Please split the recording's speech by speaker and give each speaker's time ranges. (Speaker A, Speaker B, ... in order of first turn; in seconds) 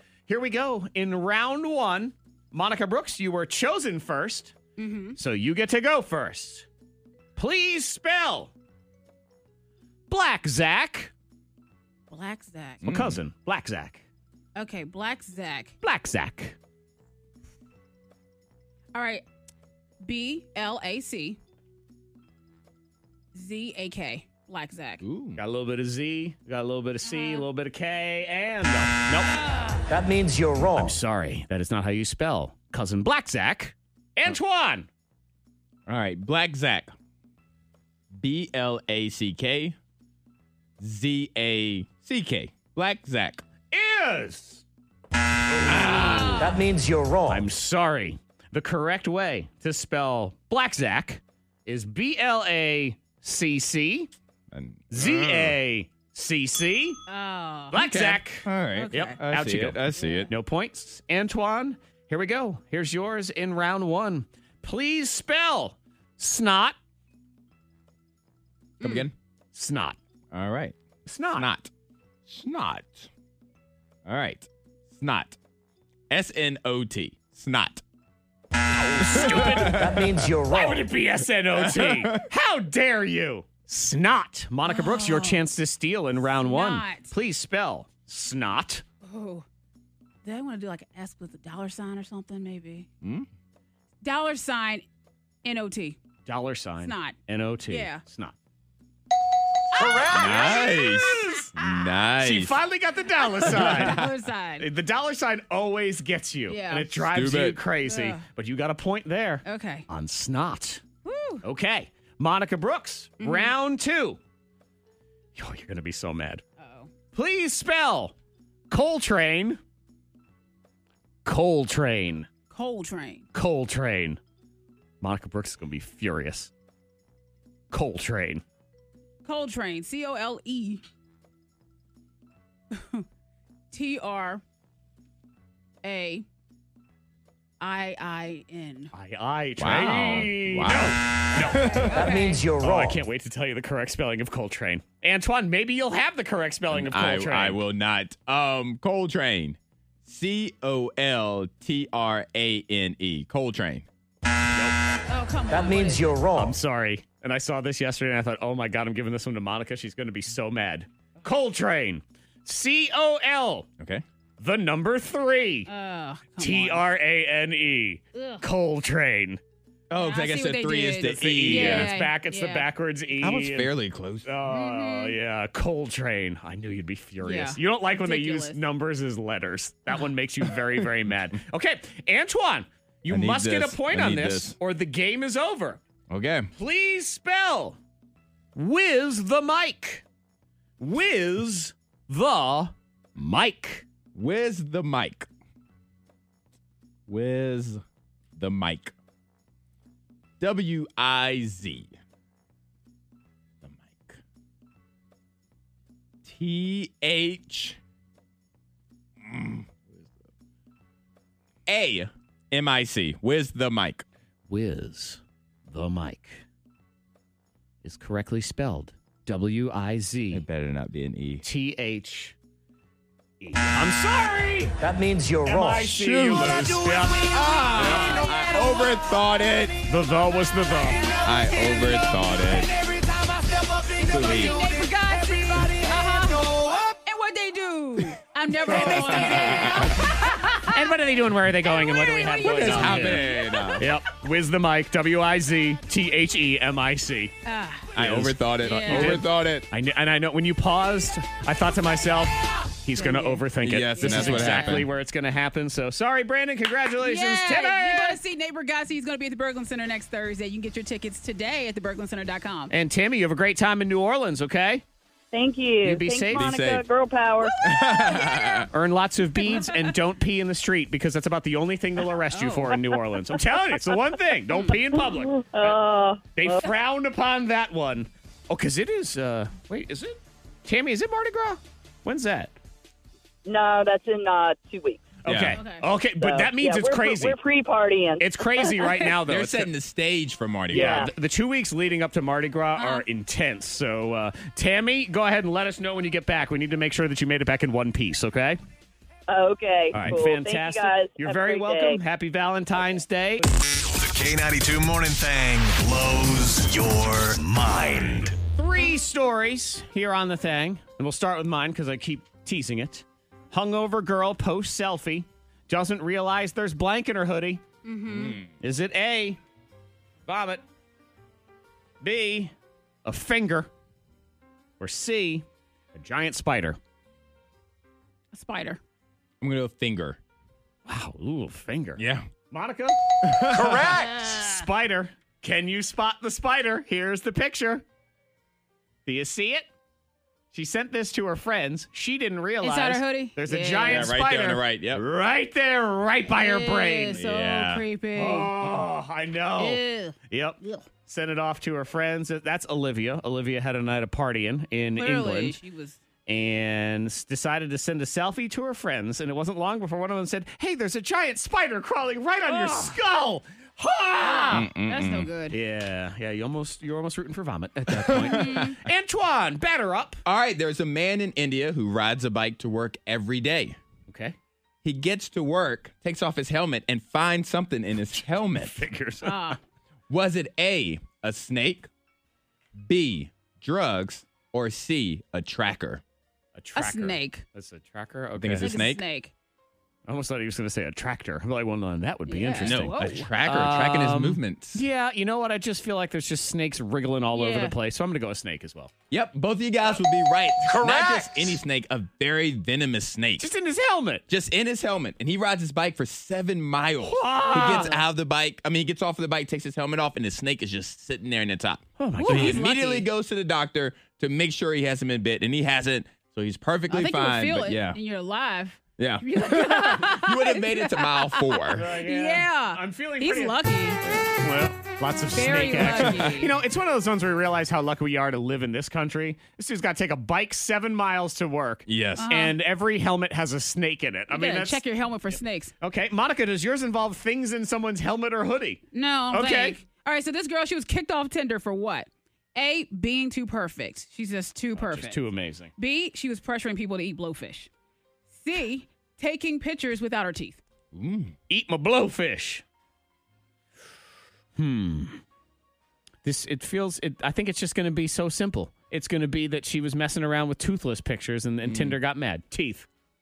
Speaker A: 0.3-4.5, 5.2-6.7, 7.3-8.5, 10.1-11.1, 12.8-14.0, 15.8-16.6, 25.4-29.5, 30.8-34.9, 43.7-44.6, 45.5-46.5, 47.3-54.1, 54.9-57.0, 57.7-66.8, 69.5-70.0, 71.0-71.5, 78.8-79.9, 80.5-88.8, 96.2-98.3, 99.8-101.5, 102.2-104.0, 104.6-110.8, 111.4-114.2, 115.3-116.4, 117.1-118.1, 118.7-119.6, 121.2-122.3, 123.3-124.2, 125.0-126.5, 127.7-128.4, 138.9-141.7, 142.6-147.6, 156.3-163.7, 164.4-165.7, 166.4-169.4, 171.0-173.7, 174.2-185.8, 186.6-187.8, 188.5-190.0, 190.8-193.8, 214.5-216.4, 217.8-220.4, 221.4-222.3, 223.4-224.8, 225.4-227.4, 229.9-231.2, 240.5-243.2, 243.8-247.3, 247.9-258.2, 262.7-264.8, 265.8-266.5, 268.7-275.8, 276.4-282.5, 285.2-287.4, 288.2-289.7, 290.7-298.6, 299.9-303.5, 307.7-317.6, 318.6-319.4, 320.2-320.6, 322.0-322.5, 323.0-323.7, 324.8-326.8, 330.9-333.0, 333.5-337.8, 339.1-339.7, 340.5-347.2, 348.1-355.6, 356.3-364.7, 365.5-370.2, 374.1-374.4, 378.6-379.6, 386.5-388.8, 390.1-398.9, 400.7-401.6, 403.4-404.2, 407.0-408.0, 412.0-412.7, 421.7-423.6, 424.4-434.8, 435.8-439.8, 444.7-445.7, 451.5-452.6, 454.6-455.2, 456.2-462.9
Speaker B: 4.8-5.2, 12.1-12.8, 14.6-15.7, 18.9-19.2, 20.0-21.4, 23.3-25.0, 27.0-27.5, 46.0-46.4, 57.1-57.9, 58.7-59.2, 59.9-60.3, 68.8-69.1, 84.7-85.5, 86.2-87.1, 89.0-89.4, 90.2-92.9, 94.0-94.8, 95.4-96.0, 96.8-97.2, 97.7-98.0, 99.7-101.9, 103.3-104.7, 106.5-106.9, 107.8-108.2, 109.4-109.9, 111.0-111.4, 113.2-113.5, 116.6-116.9, 122.5-123.2, 129.2-130.8, 132.7-133.0, 133.7-134.4, 135.8-136.2, 137.6-138.9, 141.3-142.4, 155.1-156.1, 165.7-166.9, 168.1-168.4, 169.9-172.7, 174.5-175.2, 177.2-178.6, 228.0-228.7, 233.8-240.9, 241.6-243.8, 247.4-247.9, 248.6-249.2, 252.9-253.4, 253.9-254.8, 257.0-262.7, 267.5-268.7, 272.3-272.8, 285.5-285.8, 292.8-293.1, 317.8-318.4, 328.3-328.8, 333.9-334.6, 342.6-344.1, 346.3-348.6, 349.6-350.2, 354.9-356.0, 362.5-362.9, 364.5-365.6, 368.2-368.8, 379.2-379.6, 386.8-387.4, 388.6-389.3, 392.3-393.3, 397.3-397.7, 412.2-413.1, 416.9-424.0, 425.3-426.6, 432.2-432.6, 434.3-435.7, 438.9-447.7, 448.4-450.6
Speaker C: 12.8-13.2, 25.0-25.4, 35.9-36.9, 38.1-39.8, 40.8-43.4, 45.6-46.4, 54.5-55.6, 57.7-60.3, 68.8-69.1, 70.3-70.8, 71.3-71.7, 72.3-73.1, 74.0-75.4, 76.1-77.8, 79.0-80.3, 81.5-82.2, 93.0-93.3, 100.1-102.6, 103.5-104.1, 107.1-107.6, 139.6-142.1, 146.7-153.9, 163.8-164.0, 169.9-171.9, 173.2-174.3, 183.1-184.6, 186.1-186.5, 194.1-195.3, 197.1-197.8, 198.3-198.9, 200.4-201.9, 203.6-204.2, 206.2-207.8, 209.2-210.1, 211.7-214.0, 220.3-221.4, 225.9-229.8, 231.2-233.0, 233.9-234.7, 238.7-240.1, 242.4-243.9, 247.9-249.7, 253.6-254.9, 266.3-266.8, 267.6-268.7, 285.2-285.6, 289.2-291.0, 318.1-318.5, 329.4-330.2, 332.0-332.3, 333.2-334.1, 343.8-345.0, 347.1-347.8, 364.5-365.3, 367.9-368.8, 370.2-373.8, 374.8-378.8, 380.1-381.9, 382.8-386.0, 388.4-389.0, 392.6-394.8, 399.1-403.5, 404.3-418.0, 419.0-421.9, 425.8-426.3, 431.9-432.3, 450.9-451.3, 461.6-462.0
Speaker D: 29.9-31.0, 46.4-47.5, 79.6-80.9, 141.9-143.0, 155.5-156.6, 224.8-225.9
Speaker E: 265.3-267.6, 275.1-276.7, 283.4-285.1, 286.1-289.1, 290.7-291.1, 299.3-302.0
Speaker F: 303.8-308.4